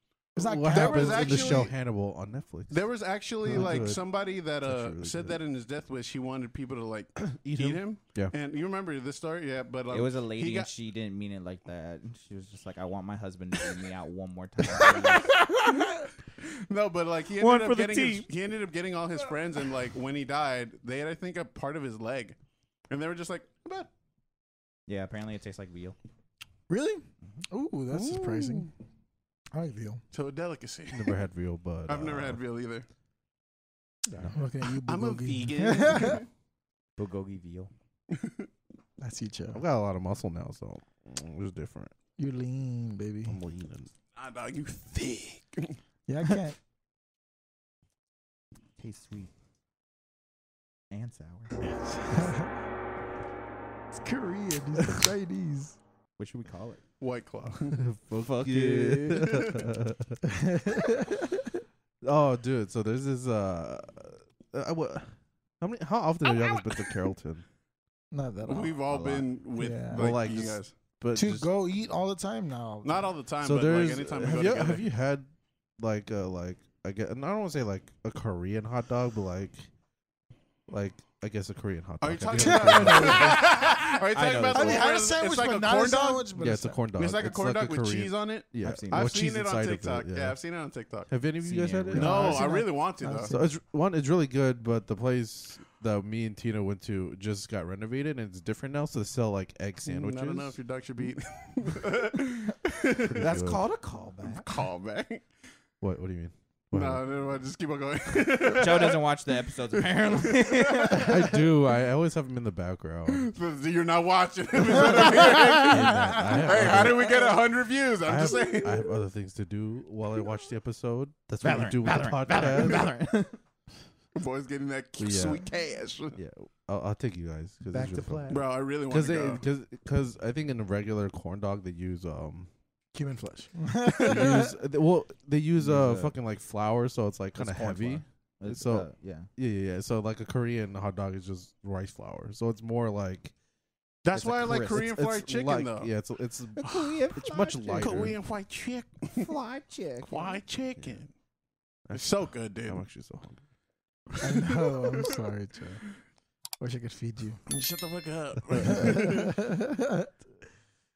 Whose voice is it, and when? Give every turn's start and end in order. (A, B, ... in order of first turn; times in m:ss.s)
0:00.4-0:01.7 A
0:00.4-0:02.8 B
0:00.7-0:01.7 C
0:02.7-0:10.7 C
0:03.4-0:04.0 B
0:03.5-0:03.8 A
0:04.6-0:05.4 B
0:07.2-0:08.3 B
0:09.9-0:15.4 D
0:14.8-0:15.8 C
0:16.4-0:22.4 C
0:17.4-0:18.3 D
0:22.9-0:23.9 C
0:24.9-0:26.0 D
0:26.7-0:28.7 A
0:27.9-0:28.7 C
0:29.5-0:30.0 A
0:30.1-0:31.2 C
0:30.9-0:32.4 B
0:31.9-0:32.9 C
0:34.3-0:36.2 A
0:34.9-0:36.3 C
0:37.0-0:37.7 D
0:38.1-0:38.5 C
0:39.0-0:39.6 A
0:39.5-0:41.9 B
0:42.2-0:43.4 A
0:43.3-0:43.9 B
0:44.2-0:45.8 C
0:46.1-0:46.6 A
0:48.8-0:49.3 D
0:50.9-0:51.6 D
0:52.1-0:52.5 A
0:53.9-0:55.8 A
0:56.2-0:56.8 D
0:57.0-0:57.8 C
0:57.8-1:00.2 B
0:58.2-0:59.4 D
0:59.2-0:59.7 C
1:00.3-1:01.5 A
1:02.0-1:07.4 B
1:06.2-1:06.9 C
1:08.1-1:09.0 A
1:08.5-1:10.7 C
1:08.9-1:09.2 D
1:09.6-1:10.2 A
1:09.9-1:11.5 B
1:11.2-1:13.1 A
1:12.8-1:14.9 C
1:13.4-1:19.7 B
1:20.7-1:23.4 B
1:22.0-1:26.3 C
1:22.3-1:23.9 A
1:24.1-1:24.8 D
1:24.5-1:26.8 A
1:26.4-1:30.4 B
1:27.0-1:31.1 C
1:28.6-1:29.1 D
1:31.1-1:32.6 B
1:31.4-1:32.2 D
1:31.9-1:33.3 C
1:31.9-1:33.5 A
1:33.3-1:40.6 B
1:39.8-1:43.3 C
1:43.0-1:43.6 B
1:43.2-1:44.5 D
1:44.3-1:45.2 C
1:45.8-1:47.0 B
1:46.7-1:49.0 C
1:48.5-1:51.3 D
1:49.8-1:51.2 C
1:51.0-1:53.3 B
1:53.1-1:58.9 C
1:54.7-1:55.8 A
1:54.9-1:57.3 B
1:58.0-2:02.9 B
2:01.4-2:03.4 D
2:04.2-2:06.2 C
2:05.0-2:05.4 B
2:06.2-2:12.5 B
2:07.7-2:08.5 D
2:08.3-2:09.4 C
2:12.9-2:14.6 A
2:14.0-2:23.3 B
2:15.6-2:16.2 D
2:17.4-2:19.3 D
2:24.0-2:25.9 C
2:24.1-2:24.9 D
2:24.6-2:28.2 B
2:26.6-2:28.2 D
2:26.6-2:27.0 C
2:27.7-2:29.3 C
2:29.2-2:30.4 D
2:30.1-2:31.1 C
2:31.9-2:33.4 B
2:31.9-2:32.8 C
2:34.2-2:35.8 A
2:34.3-2:35.1 C
2:36.6-2:37.4 A
2:37.5-2:39.4 C
2:38.6-2:40.1 A